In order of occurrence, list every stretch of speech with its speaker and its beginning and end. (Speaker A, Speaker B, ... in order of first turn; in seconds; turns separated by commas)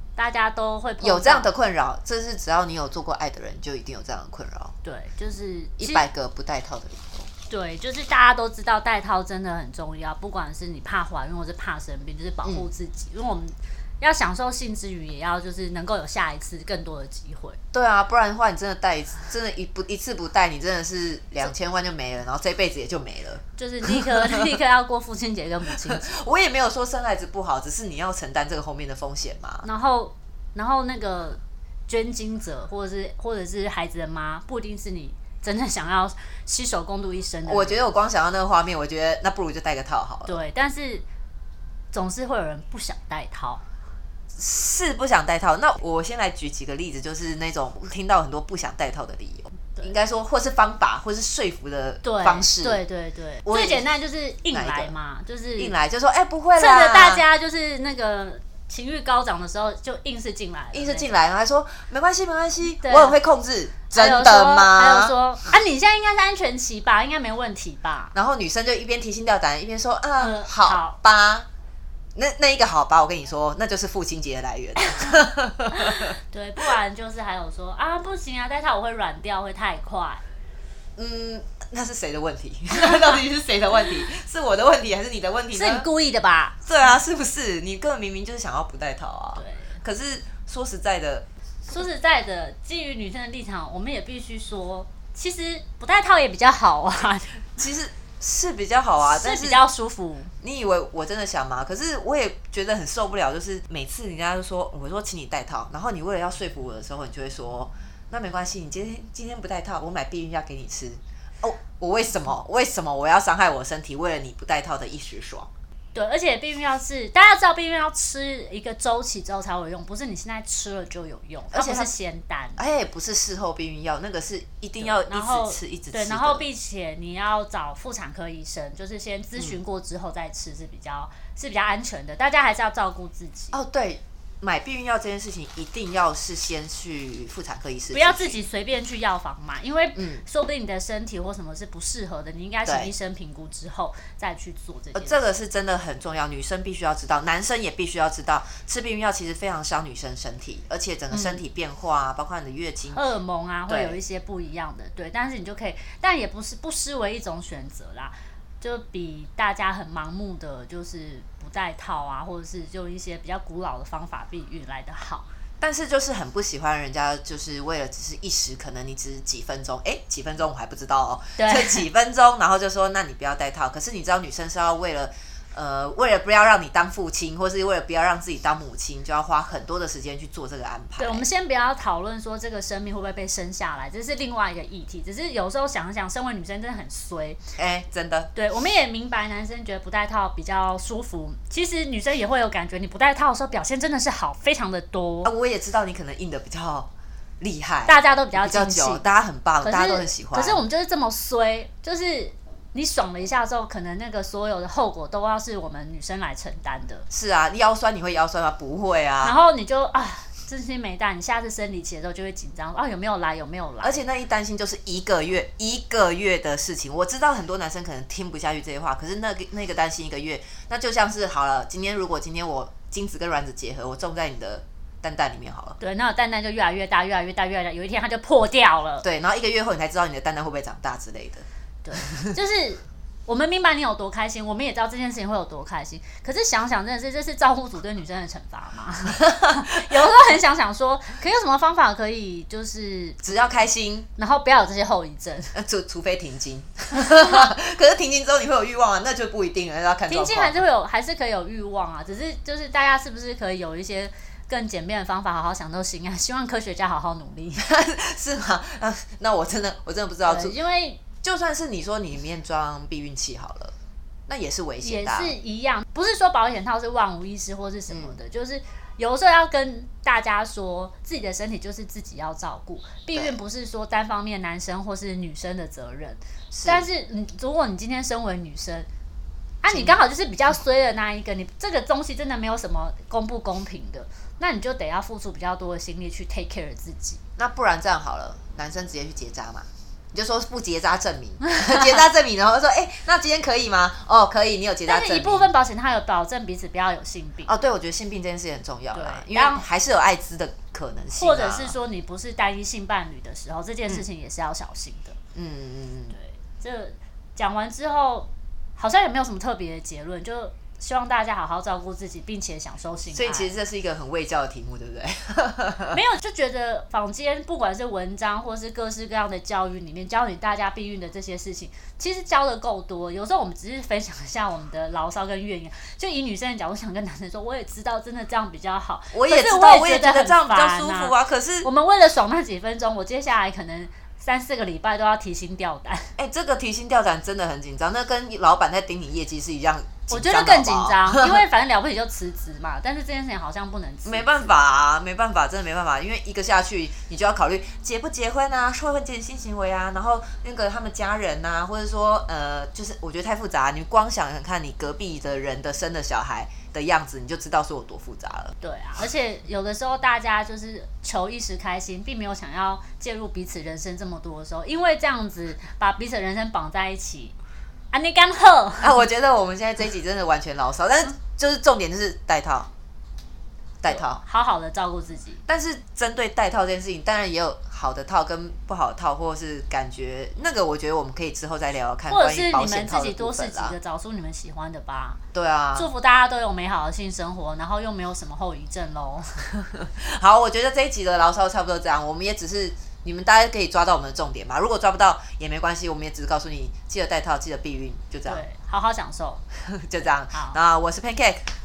Speaker A: 0.2-1.5, Speaker B: 1.0-4.7, Speaker A: 4.8-6.0, Speaker B: 5.8-7.3, Speaker A: 7.5-17.6, Speaker B: 17.7-24.5, Speaker A: 23.6-26.2, Speaker B: 25.8-29.7, Speaker A: 29.6-37.9, Speaker B: 37.5-40.4, Speaker A: 40.3-41.1, Speaker A: 41.9-43.6, Speaker B: 44.3-52.8, Speaker A: 52.0-55.8, Speaker B: 53.5-53.8, Speaker B: 54.5-54.9, Speaker B: 55.6-57.2, Speaker A: 56.6-61.1, Speaker B: 60.7-65.1, Speaker A: 62.8-63.1, Speaker A: 63.9-68.1, Speaker B: 68.2-71.5, Speaker A: 70.2-71.0, Speaker B: 72.2-76.2, Speaker A: 75.8-80.2, Speaker B: 81.0-85.9, Speaker A: 85.5-86.6, Speaker B: 86.7-91.3, Speaker A: 89.4-89.8, Speaker A: 91.7-97.5, Speaker B: 97.6-99.6, Speaker A: 99.0-100.3, Speaker B: 100.4-115.5, Speaker A: 115.9-122.6, Speaker B: 121.5-121.9, Speaker B: 122.6-126.5, Speaker A: 124.8-133.6, Speaker B: 133.5-138.4, Speaker A: 137.9-145.2, Speaker B: 139.9-140.2, Speaker B: 142.7-142.9, Speaker B: 144.9-153.0, Speaker A: 151.1-151.4, Speaker A: 152.9-165.3, Speaker B: 153.7-154.0, Speaker B: 165.6-181.3, Speaker A: 171.4-171.8, Speaker A: 181.0-187.4, Speaker B: 187.6-188.3, Speaker A: 188.3-195.3, Speaker B: 195.2-200.6, Speaker A: 197.9-199.0, Speaker A: 199.6-207.1, Speaker B: 207.1-209.4, Speaker A: 209.2-214.0, Speaker B: 213.8-225.8, Speaker A: 225.8-229.1, Speaker B: 229.0-231.4, Speaker A: 231.8-243.2, Speaker B: 243.2-244.1, Speaker A: 244.2-245.6, Speaker B: 245.6-250.6, Speaker A: 250.1-257.6, Speaker B: 257.6-260.6, Speaker A: 260.3-261.0, Speaker B: 261.2-263.8, Speaker B: 264.3-265.3, Speaker A: 264.8-278.9, Speaker B: 267.9-268.2, Speaker B: 276.5-276.9, Speaker A: 279.6-287.2, Speaker B: 279.7-280.0, Speaker B: 287.4-295.5, Speaker A: 294.9-297.6, Speaker B: 297.5-301.8, Speaker A: 298.9-299.6, Speaker A: 301.1-305.2, Speaker B: 305.4-306.2, Speaker A: 306.1-313.5, Speaker B: 313.1-316.0, Speaker A: 315.9-336.1, Speaker B: 329.1-331.7, Speaker B: 336.2-341.4, Speaker A: 340.1-344.5, Speaker B: 344.1-358.5, Speaker A: 358.6-367.4, Speaker A: 367.9-369.0, Speaker B: 368.8-372.7, Speaker B: 373.8-374.2, Speaker A: 373.9-375.4, Speaker B: 375.5-383.8, Speaker A: 382.1-385.2, Speaker B: 385.3-385.9, Speaker A: 385.8-389.5, Speaker B: 389.7-398.4, Speaker A: 398.3-399.4, Speaker B: 399.6-401.4, Speaker A: 400.3-400.6